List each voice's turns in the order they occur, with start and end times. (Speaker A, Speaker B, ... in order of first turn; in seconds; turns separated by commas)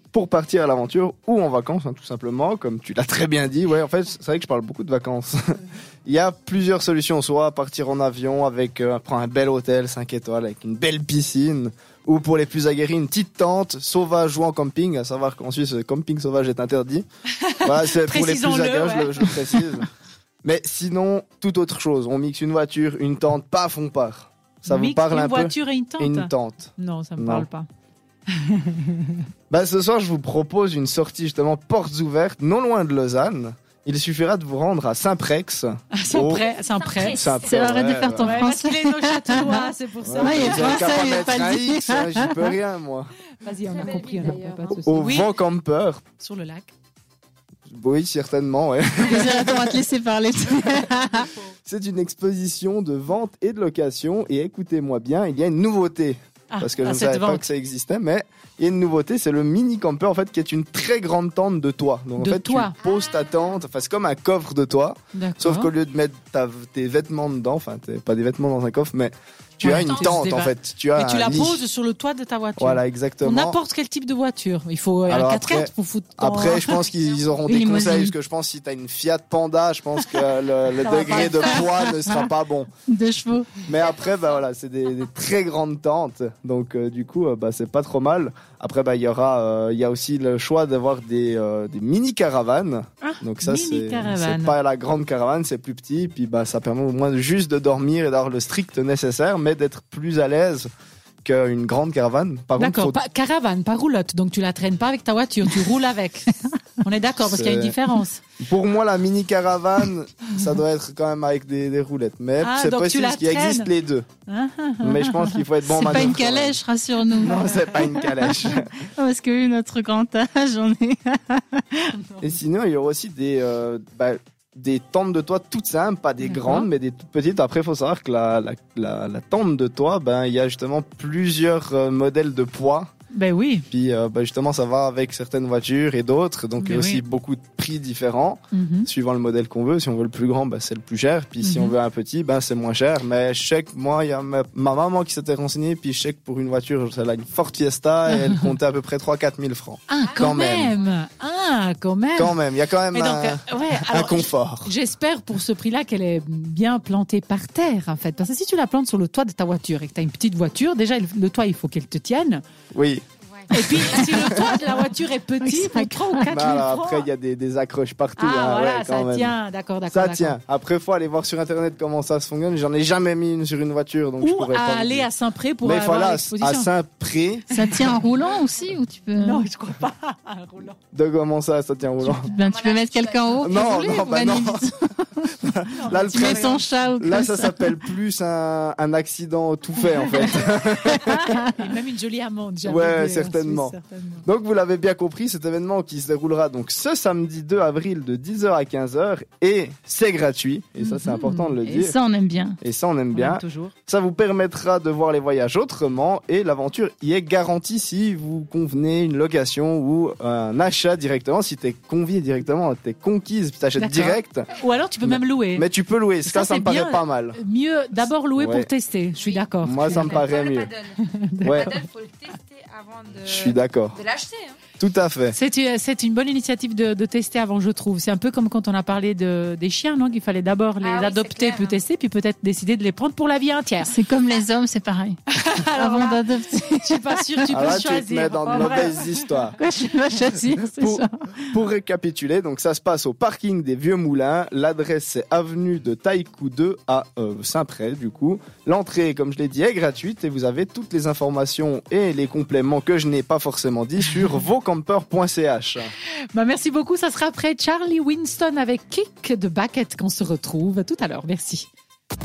Speaker A: 0.1-17.0, Speaker B: 17.4-19.7, Speaker A: 17.6-19.9, Speaker A: 20.4-27.5, Speaker B: 24.7-27.6, Speaker B: 28.3-29.2, Speaker A: 29.5-36.5, Speaker B: 35.9-37.4, Speaker C: 36.6-38.6, Speaker A: 37.0-38.4, Speaker D: 37.5-39.5, Speaker B: 38.2-41.0, Speaker A: 40.0-43.1, Speaker D: 40.2-42.3, Speaker B: 43.4-45.3, Speaker C: 43.6-44.8, Speaker A: 44.9-46.0, Speaker B: 46.2-46.7, Speaker A: 47.7-49.8, Speaker D: 49.1-51.3, Speaker A: 51.6-71.6, Speaker B: 56.5-57.5, Speaker B: 62.2-62.7, Speaker C: 62.9-63.4, Speaker B: 65.1-65.7, Speaker B: 69.6-76.8, Speaker C: 69.7-70.1, Speaker A: 72.6-73.6, Speaker A: 75.1-82.7, Speaker D: 77.5-78.1, Speaker B: 80.8-81.7, Speaker C: 80.9-81.7, Speaker D: 82.9-83.5, Speaker A: 83.7-100.7, Speaker C: 83.8-84.3, Speaker B: 93.0-94.5, Speaker A: 101.2-103.0, Speaker B: 102.6-108.2, Speaker A: 107.1-107.8, Speaker A: 108.4-114.1, Speaker B: 112.4-113.7, Speaker B: 114.2-115.4, Speaker A: 114.8-116.6, Speaker D: 115.7-118.4, Speaker A: 117.1-118.8, Speaker B: 117.4-117.8, Speaker D: 119.0-121.8, Speaker B: 122.0-122.3, Speaker A: 122.2-132.9, Speaker B: 126.2-126.7, Speaker B: 133.1-133.7, Speaker A: 133.7-150.8, Speaker B: 136.6-137.0, Speaker B: 138.5-138.9, Speaker B: 141.4-141.7, Speaker B: 148.1-148.5, Speaker B: 149.9-162.4, Speaker A: 152.2-154.7, Speaker A: 162.7-163.0, Speaker B: 163.5-167.1, Speaker A: 163.6-164.6, Speaker C: 164.0-164.8, Speaker C: 165.4-166.1, Speaker A: 166.3-169.3, Speaker B: 168.2-170.3, Speaker A: 169.9-175.1, Speaker B: 174.2-176.7, Speaker A: 175.6-177.5, Speaker B: 177.5-178.0, Speaker D: 177.5-179.4, Speaker C: 178.4-179.0, Speaker B: 179.2-180.8, Speaker A: 180.9-182.3, Speaker C: 182.2-184.2, Speaker D: 182.3-184.7, Speaker A: 183.4-184.7, Speaker A: 185.4-191.3, Speaker B: 185.7-186.7, Speaker D: 186.2-187.6, Speaker B: 190.2-194.2, Speaker A: 192.6-202.0, Speaker B: 200.8-201.6, Speaker D: 201.9-202.6, Speaker A: 202.6-214.5, Speaker B: 203.1-203.7, Speaker B: 213.8-215.7, Speaker A: 215.0-217.4, Speaker B: 216.2-220.2, Speaker A: 218.3-218.7, Speaker C: 219.2-224.6, Speaker A: 219.6-220.7, Speaker B: 221.0-221.8, Speaker A: 221.4-221.8, Speaker A: 223.2-224.0, Speaker A: 224.8-225.3, Speaker B: 225.3-233.9, Speaker C: 230.8-231.8, Speaker D: 233.8-235.2, Speaker B: 235.3-240.1, Speaker D: 235.8-237.5, Speaker A: 237.5-239.6, Speaker D: 239.7-240.7, Speaker C: 240.3-240.6, Speaker A: 240.7-255.9, Speaker B: 256.3-261.7